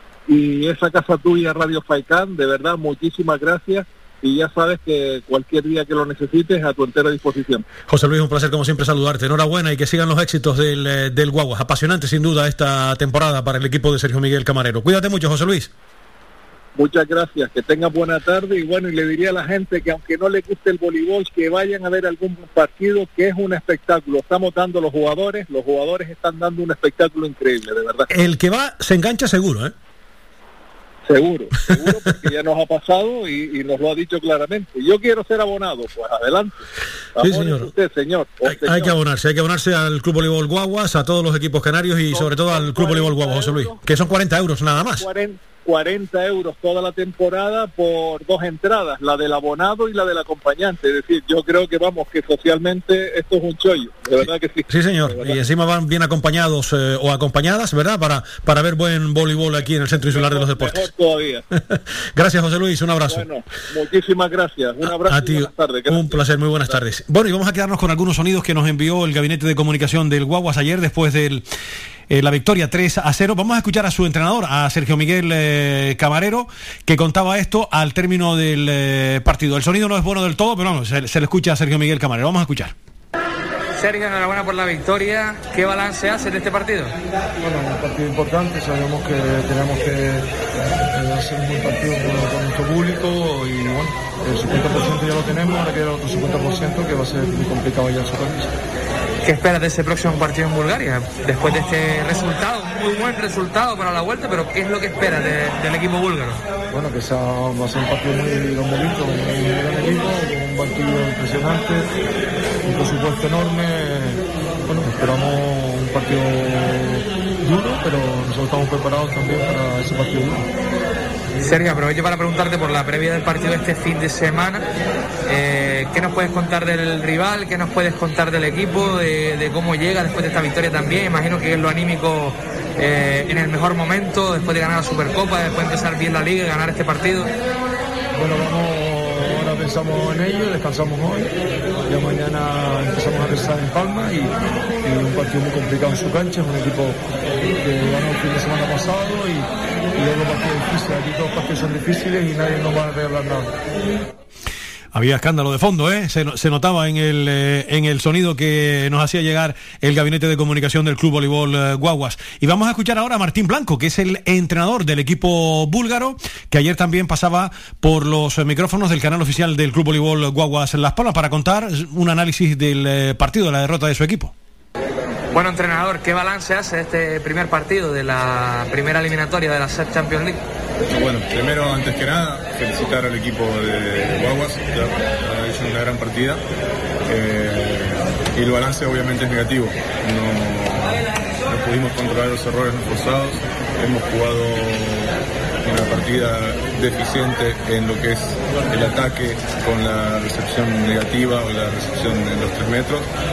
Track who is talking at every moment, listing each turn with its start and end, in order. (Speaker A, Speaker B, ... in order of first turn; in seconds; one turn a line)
Speaker A: 0.3-7.6
Speaker B: 7.9-15.7
Speaker A: 16.8-28.1
Speaker B: 28.1-29.7
Speaker A: 31.1-36.6
Speaker A: 37.1-39.0
Speaker B: 37.2-37.7
Speaker B: 38.5-45.1
Speaker A: 42.1-43.8
Speaker A: 44.8-55.4
Speaker B: 54.7-60.9
Speaker A: 60.0-61.4
Speaker B: 61.7-63.2
Speaker A: 63.1-66.8
Speaker B: 64.9-71.4
Speaker B: 72.1-82.7
Speaker C: 83.8-86.9
Speaker D: 87.3-90.3
Speaker D: 90.9-98.5
Speaker C: 99.2-106.4
Speaker D: 106.7-111.9
Speaker D: 112.7-120.5
Speaker C: 121.4-124.6
Speaker C: 125.3-137.3
Speaker D: 138.1-141.3
Speaker D: 141.9-153.5
Speaker B: 154.9-174.3
Speaker C: 175.3-180.4
Speaker E: 180.9-186.4
Speaker E: 187.1-203.1